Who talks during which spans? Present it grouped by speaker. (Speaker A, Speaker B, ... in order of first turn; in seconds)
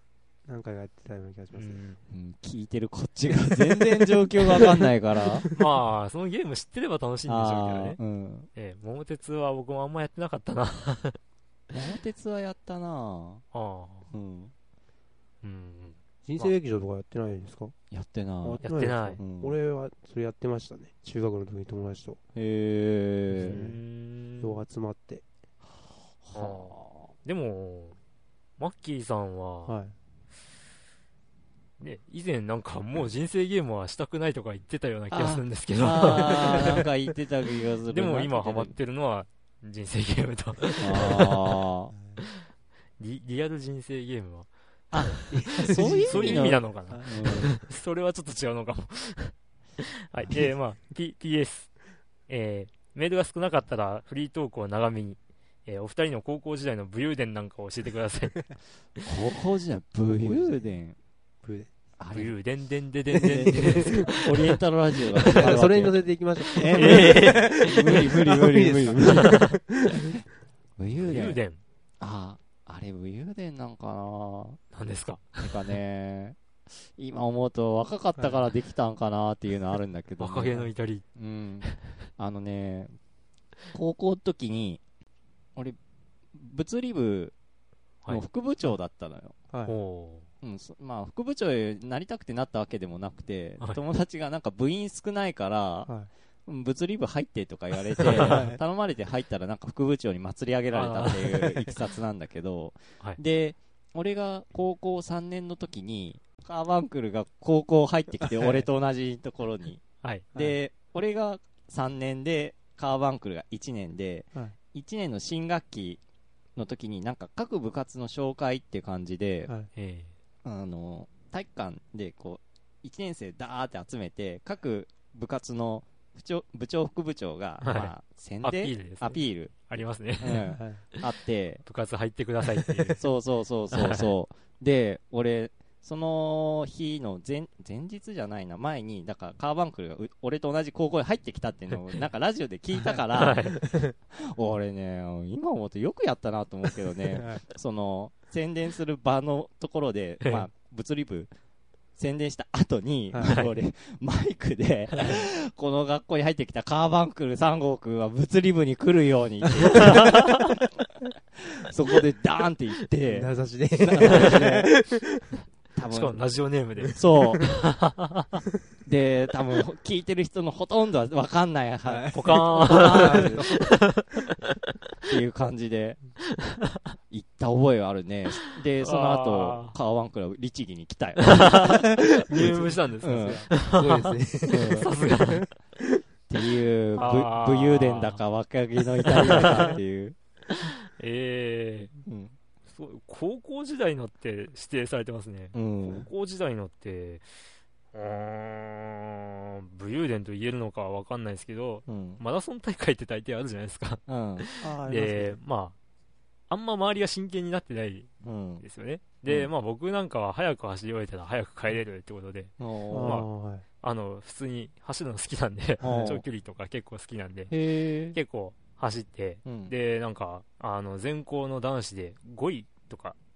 Speaker A: 0.5-1.8, 3.7-5.6, 16.2-17.7, 18.4-22.2, 23.4-23.8, 24.4-25.2, 29.6-29.9, 45.3-47.3, 60.0-60.6, 61.4-61.7, 63.1-64.0, 65.2-70.2, 98.1-98.6, 130.5-130.8, 143.6-143.9, 147.1-147.4, 153.1-153.4, 163.1-165.2, 171.8-173.6, 182.0-185.8, 187.0-187.3, 204.6-205.4, 212.9-213.6, 215.8-216.2
Speaker B: 1.6-2.0, 5.5-8.0, 8.5-11.2, 13.5-14.1, 15.4-16.0, 18.6-19.2, 23.4-24.6, 26.3-27.9, 28.6-29.7, 31.8-36.9, 37.9-41.6, 43.0-44.5, 45.0-49.3, 50.1-51.7, 52.3-58.4, 62.1-64.6, 65.2-65.6, 66.6-68.0, 69.0-69.5, 71.0-71.6, 74.7-75.7, 80.2-81.0, 89.7-90.2, 98.0-98.3, 100.7-101.7, 119.7-120.1, 127.6-130.6, 131.7-133.0, 133.7-134.1, 143.1-143.6, 150.2-150.5, 153.2-153.5, 159.7-160.4, 165.9-168.4, 172.1-174.2, 178.8-179.7, 181.2-184.1, 184.7-185.5, 187.0-188.2, 189.1-189.8, 190.5-191.9, 192.7-197.2, 197.9-205.8, 206.5-213.3, 213.8-217.5, 218.1-223.2
Speaker C: 2.1-5.5, 7.2-8.5, 11.7-13.4, 14.1-14.5, 17.9-19.5, 22.3-23.6, 26.2-27.1, 35.1-38.7, 40.8-41.9, 44.9-47.5, 59.0-61.0, 62.0-62.3, 63.3-66.0, 66.5-69.3, 70.8-71.4, 72.0-74.6, 75.4-82.9, 83.7-84.8, 86.3-87.3, 88.1-89.3, 90.4-95.9, 96.5-116.0, 116.5-119.5, 120.4-129.5, 130.2-131.6, 132.9-151.3, 151.9-160.6, 161.3-164.7, 165.7-166.2, 166.9-167.6, 168.8-173.5, 175.1-176.0, 177.1-181.8, 182.4-183.5, 184.5-184.9, 186.3-190.2, 192.1-192.3, 195.5-196.1, 201.9-202.2, 204.1-204.5, 208.2-208.6, 212.6-213.2, 215.8-216.2, 217.5-218.2, 219.4-219.7